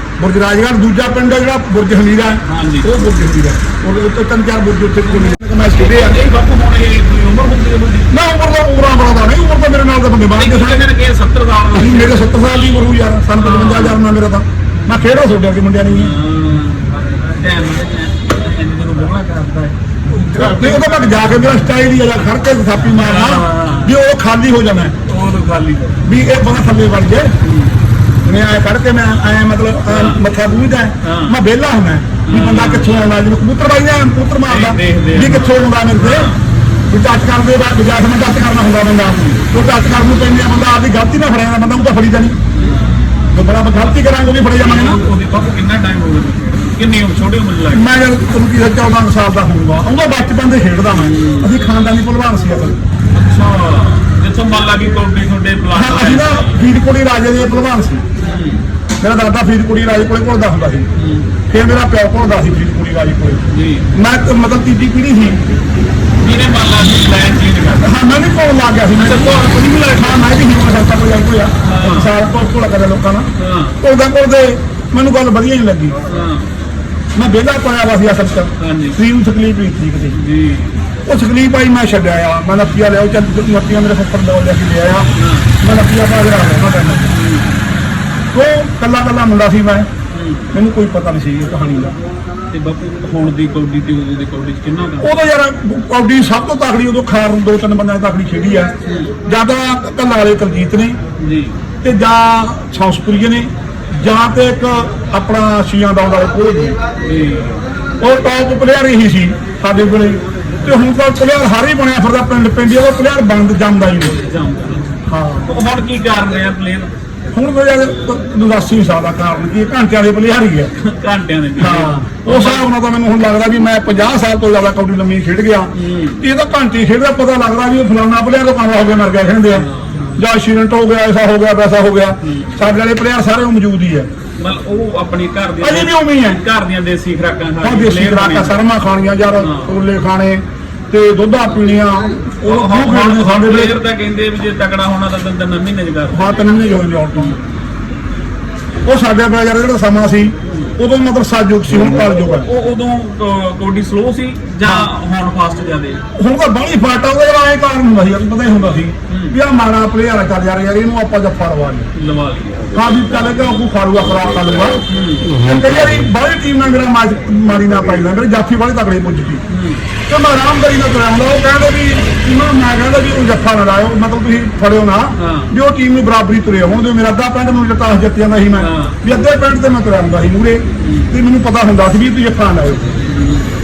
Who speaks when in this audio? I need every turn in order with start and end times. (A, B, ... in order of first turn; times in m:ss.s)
0:00.2-0:06.2 A
0:02.4-0:02.9 B
0:05.1-0:08.1 B
0:08.1-0:10.9 A
0:10.3-0:12.2 B
0:11.8-0:16.1 A
0:13.4-0:14.0 B
0:15.8-0:21.5 B
0:20.2-0:25.0 A
0:22.9-0:24.0 B
0:25.1-0:26.0 B
0:26.0-0:27.3 A
0:27.4-0:27.8 B
0:28.2-0:36.3 A
0:29.9-0:30.2 B
0:31.0-0:31.4 B
0:32.2-0:32.9 B
0:34.5-0:36.4 B
0:36.9-0:42.3 A
0:39.2-0:39.4 B
0:42.5-0:43.2 B
0:43.3-0:45.0 A
0:44.5-0:48.0 B
0:47.7-0:52.8 A
0:51.0-0:51.5 B
0:53.1-0:56.6 B
0:55.7-0:58.0 A
0:58.2-0:58.7 B
0:59.0-1:00.9 A
1:00.9-1:01.3 B
1:01.5-1:03.4 A
1:03.5-1:03.9 B
1:03.9-1:05.4 A
1:06.2-1:08.0 B
1:07.8-1:16.0 A
1:09.0-1:10.2 B
1:11.6-1:12.1 B
1:13.4-1:13.8 B
1:16.1-1:16.5 B
1:17.2-1:20.2 A
1:18.6-1:19.0 B
1:20.2-1:20.8 B
1:21.1-1:25.1 A
1:25.2-1:25.6 B
1:25.6-1:27.2 A
1:27.1-1:27.6 B
1:28.3-1:29.9 A
1:30.1-1:30.5 B
1:30.5-1:32.0 A
1:32.5-1:35.1 B
1:35.0-1:38.7 A
1:38.8-1:39.2 B
1:39.2-1:41.0 A
1:41.2-1:41.6 B
1:41.8-1:46.8 A
1:47.0-1:47.6 B
1:48.0-1:54.2 A
1:54.2-1:56.9 B
1:55.1-1:55.6 A
1:57.3-2:00.7 A
2:00.8-2:02.7 B
2:01.6-2:14.1 A
2:05.8-2:06.2 B
2:09.6-2:10.2 B
2:12.2-2:12.6 B
2:14.4-2:18.6 B
2:15.6-2:16.4 A
2:17.6-2:23.8 A
2:19.4-2:19.7 B
2:22.4-2:26.4 B
2:26.1-2:27.4 A
2:27.1-2:27.5 B
2:28.8-2:32.5 A
2:30.5-2:30.8 B
2:32.2-2:36.0 B
2:34.6-2:34.9 A
2:36.1-2:41.9 A
2:39.1-2:39.4 B
2:41.9-2:42.8 B
2:42.7-2:49.4 A
2:44.9-2:45.4 B
2:49.5-2:49.8 B
2:50.1-3:02.9 A
2:55.2-2:55.5 B
2:58.6-2:59.0 B
3:00.8-3:01.2 B
3:03.0-3:03.6 B